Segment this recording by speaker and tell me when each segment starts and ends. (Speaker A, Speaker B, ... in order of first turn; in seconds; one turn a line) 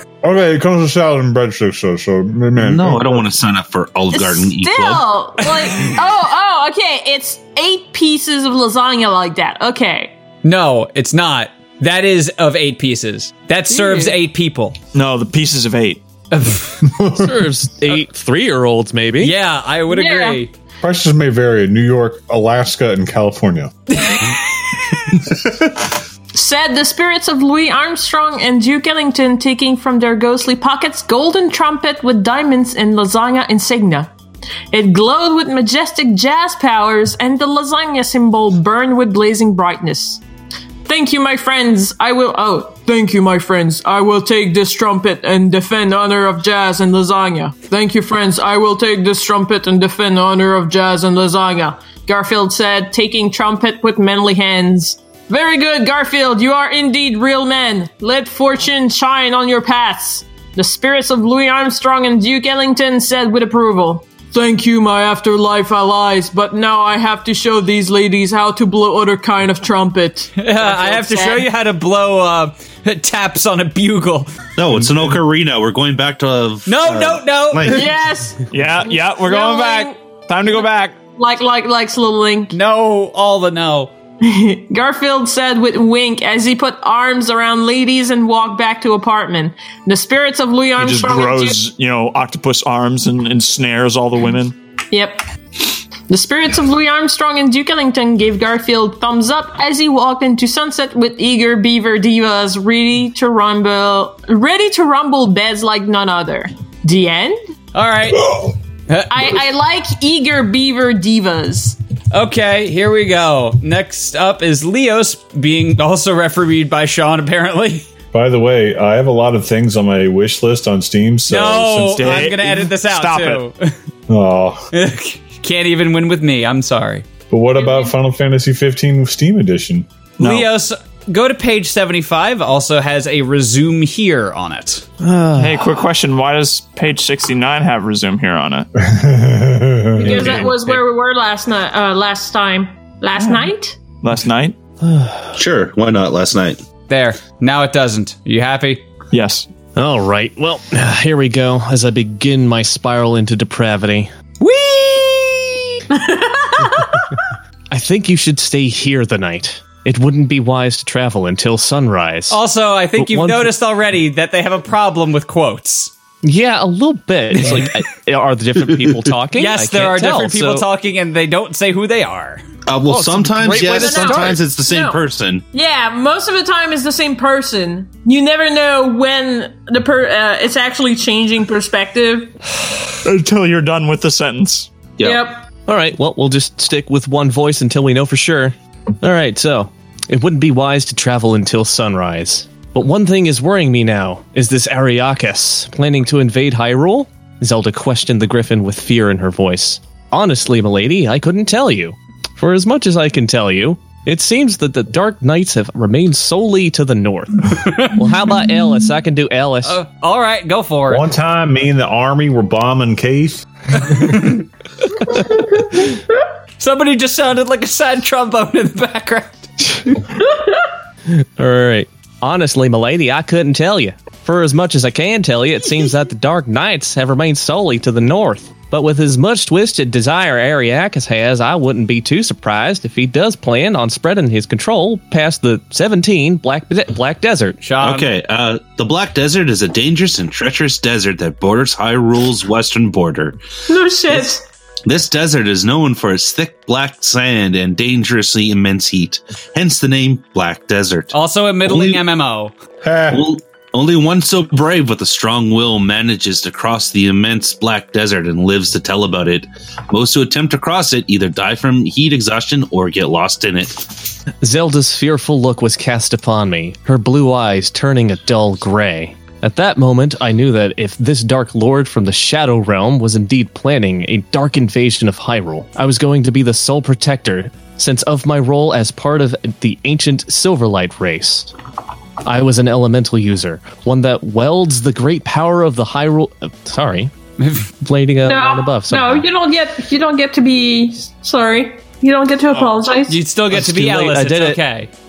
Speaker A: 0.2-3.3
Speaker B: 2.6-5.1
Speaker C: 4.1-10.1
Speaker D: 10.4-14.8
Speaker C: 13.7-14.2
Speaker E: 14.9-16.0
Speaker D: 16.3-16.8
Speaker A: 16.9-17.5
Speaker F: 17.2-19.4
Speaker D: 19.2-20.5
Speaker C: 19.9-20.4
Speaker A: 20.8-23.7
Speaker D: 23.9-24.4
Speaker A: 25.2-25.7
Speaker C: 26.3-34.1
Speaker C: 34.7-40.2
Speaker C: 40.9-71.5
Speaker D: 70.4-74.3
Speaker B: 74.6-77.9
Speaker D: 76.7-77.9
Speaker C: 77.7-80.0
Speaker E: 78.5-81.0
Speaker C: 81.2-82.5
Speaker D: 82.5-83.9
Speaker C: 84.2-91.6
Speaker E: 90.8-94.5
Speaker C: 94.9-95.2
Speaker C: 96.1-107.4
Speaker D: 107.7-109.2
Speaker C: 109.1-111.8
Speaker D: 112.1-117.9
Speaker A: 118.1-122.2
Speaker D: 121.3-123.7
Speaker E: 122.0-123.4
Speaker A: 124.1-124.6
Speaker D: 124.7-127.0
Speaker A: 127.3-129.9
Speaker C: 127.5-127.9
Speaker E: 130.2-130.5
Speaker D: 130.2-134.9
Speaker F: 135.0-135.7
Speaker E: 135.4-138.7
Speaker A: 138.8-140.2
Speaker C: 140.0-143.8
Speaker F: 140.1-140.5
Speaker D: 140.3-140.8
Speaker E: 143.2-143.5
Speaker E: 144.0-144.6
Speaker F: 144.8-145.3
Speaker B: 145.3-146.6
Speaker D: 146.9-148.8
Speaker E: 149.1-149.5
Speaker F: 149.8-154.1
Speaker D: 154.4-155.6
Speaker C: 155.9-157.0
Speaker F: 157.7-162.4
Speaker D: 162.3-165.9
Speaker F: 163.0-163.5
Speaker F: 166.2-170.7
Speaker D: 167.3-167.7
Speaker B: 168.7-169.1
Speaker D: 169.4-172.4
Speaker B: 172.7-175.4
Speaker F: 172.9-174.4
Speaker C: 173.7-175.0
Speaker C: 175.5-182.3
Speaker E: 183.0-184.7
Speaker B: 185.0-185.2
Speaker C: 185.0-185.4
Speaker F: 185.7-209.8
Speaker D: 209.6-211.1
Speaker A: 210.9-213.5
Speaker D: 213.8-214.4
Speaker D: 216.6-219.5
Speaker F: 221.4-237.6
Speaker D: 237.6-238.1
Speaker B: 237.8-243.4
Speaker C: 243.7-244.4
Speaker B: 244.9-251.1
Speaker D: 251.1-252.5
Speaker B: 251.7-252.0
Speaker A: 252.8-253.2
Speaker B: 253.1-264.1
Speaker F: 264.4-281.5
Speaker F: 282.2-287.1
Speaker D: 287.4-287.7
Speaker F: 287.8-289.3
Speaker C: 288.2-293.2
Speaker D: 292.5-294.9
Speaker F: 293.5-294.6